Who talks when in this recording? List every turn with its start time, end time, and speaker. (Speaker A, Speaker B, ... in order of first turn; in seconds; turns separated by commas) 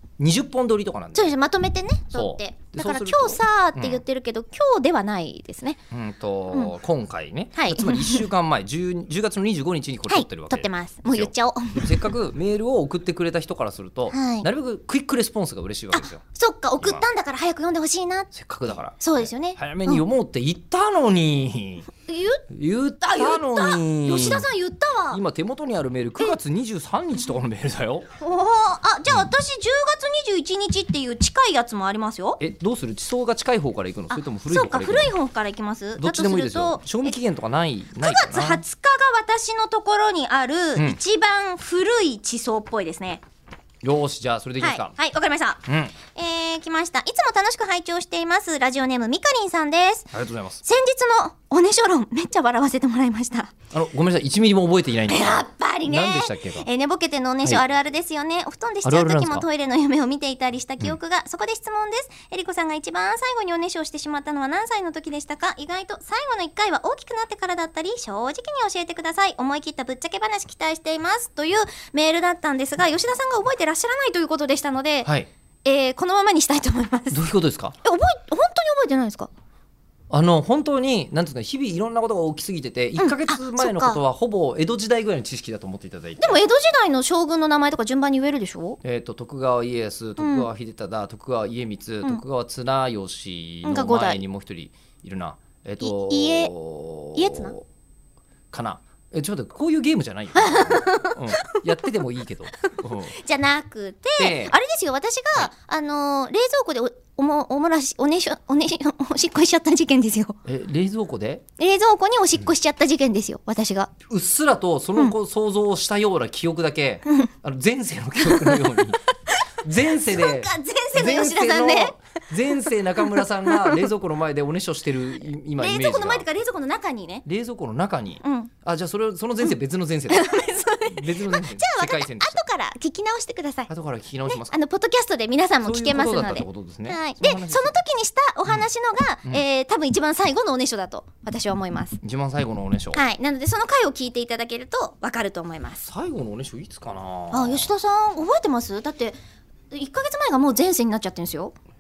Speaker A: 0.2-1.3, Speaker B: 1.1-5.8, Speaker A: 2.1-4.0, Speaker A: 5.9-16.2, Speaker B: 7.5-8.3, Speaker B: 10.1-12.1, Speaker B: 14.1-14.4, Speaker B: 15.9-18.3, Speaker A: 16.8-17.1, Speaker A: 18.3-21.9, Speaker B: 19.0-20.1, Speaker B: 22.1-22.4, Speaker A: 22.5-24.5, Speaker B: 23.0-25.2, Speaker A: 25.1-28.1, Speaker B: 28.2-32.4, Speaker A: 32.4-35.1, Speaker B: 34.1-37.1, Speaker A: 36.0-38.6, Speaker B: 38.0-43.2, Speaker A: 43.8-44.9, Speaker B: 44.6-50.1, Speaker A: 45.6-45.9, Speaker A: 50.1-50.6, Speaker B: 50.6-53.5, Speaker A: 53.7-56.7, Speaker B: 55.0-75.1, Speaker A: 58.8-59.5, Speaker B: 75.6-77.2, Speaker A: 77.1-77.8, Speaker B: 77.8-79.3, Speaker A: 80.1-86.4, Speaker B: 83.0-84.0, Speaker B: 86.2-88.8, Speaker A: 88.8-97.6, Speaker B: 90.2-90.5, Speaker B: 93.6-94.2, Speaker B: 95.8-96.5, Speaker B: 97.1-97.5, Speaker A: 98.5-103.1, Speaker B: 100.3-101.6, Speaker B: 103.1-110.4, Speaker A: 104.2-104.5, Speaker A: 110.4-111.4, Speaker B: 111.6-113.9, Speaker A: 114.1-119.0, Speaker B: 118.2-118.6, Speaker A: 119.6-126.3, Speaker B: 120.0-122.0, Speaker B: 123.0-123.8, Speaker B: 125.6-127.2, Speaker A: 127.2-130.2, Speaker B: 128.2-128.5, Speaker B: 130.1-133.7, Speaker A: 130.8-132.4, Speaker A: 133.7-134.5, Speaker B: 134.2-142.0, Speaker A: 135.6-137.8, Speaker A: 142.0-143.0, Speaker B: 142.9-145.8, Speaker A: 145.8-147.7, Speaker B: 147.3-149.2, Speaker B: 149.7-151.5